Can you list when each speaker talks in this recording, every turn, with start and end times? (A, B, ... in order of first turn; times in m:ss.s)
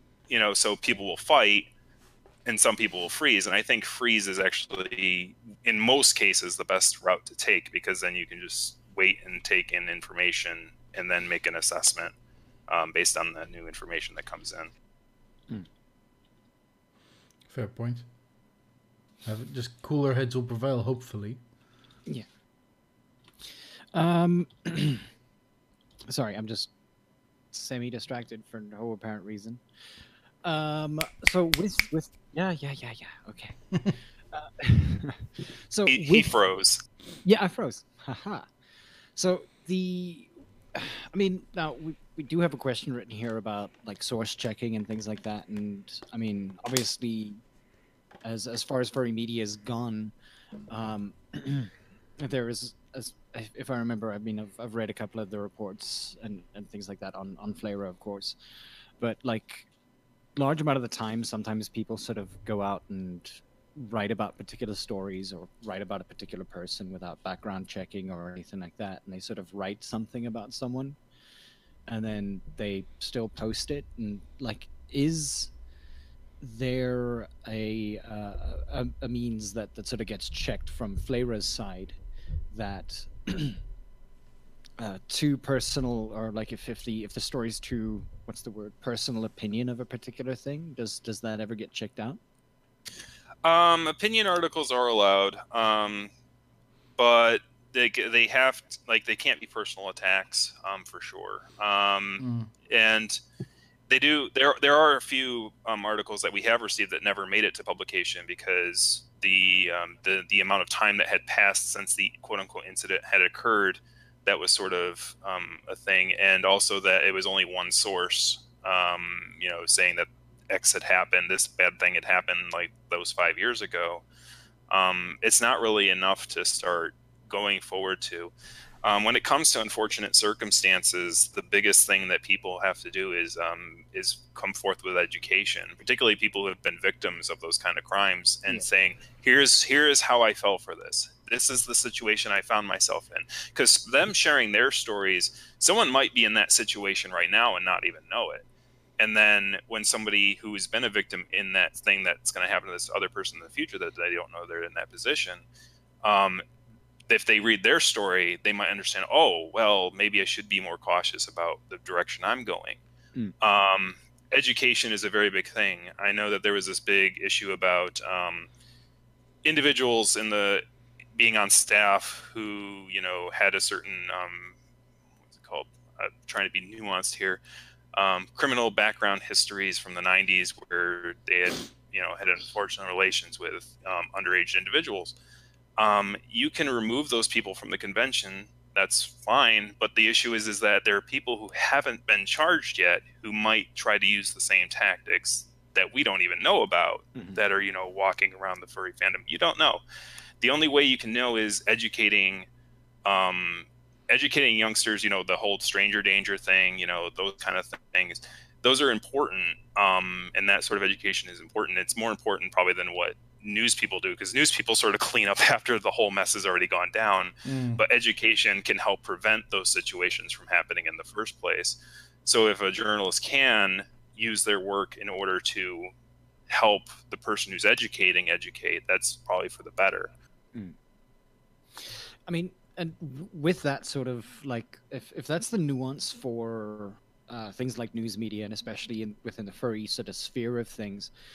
0:00.3-0:01.7 A
0:02.4-0:12.1 A
0:12.7-0:14.7 A
0:17.5-0:18.0 B
0:19.2-0:21.4 B
0:23.4-0:25.1 C
0:26.1-0:26.7 C
0:27.5-0:29.6 C
0:30.4-0:36.3 C
0:35.9-0:36.8 A
0:37.2-0:38.5 C
0:39.2-0:47.4 C
0:48.2-0:50.1 C
0:50.7-0:58.4 C
0:59.0-0:59.7 C
1:00.4-1:11.0 C
1:11.9-1:15.5 C
1:16.4-1:22.0 C
1:22.5-1:23.6 C
1:24.8-1:32.2 C
1:33.4-1:36.1 A
1:37.0-1:43.2 A
1:42.2-1:42.5 B
1:43.9-2:04.0 A
2:04.7-2:08.3 A
2:08.8-2:28.4 A
2:29.0-2:35.4 A
2:36.0-2:36.4 A
2:37.1-2:42.8 A
2:43.4-2:48.5 A
2:49.4-2:50.6 A
2:51.2-2:54.5 A
2:55.4-2:57.4 A
2:57.9-3:05.2 A
3:05.8-3:19.8 A
3:17.1-3:17.4 C
3:20.4-3:22.5 A
3:23.0-3:45.9 A
3:37.4-3:37.8 B
3:46.5-3:50.1 A
3:51.8-4:01.1 C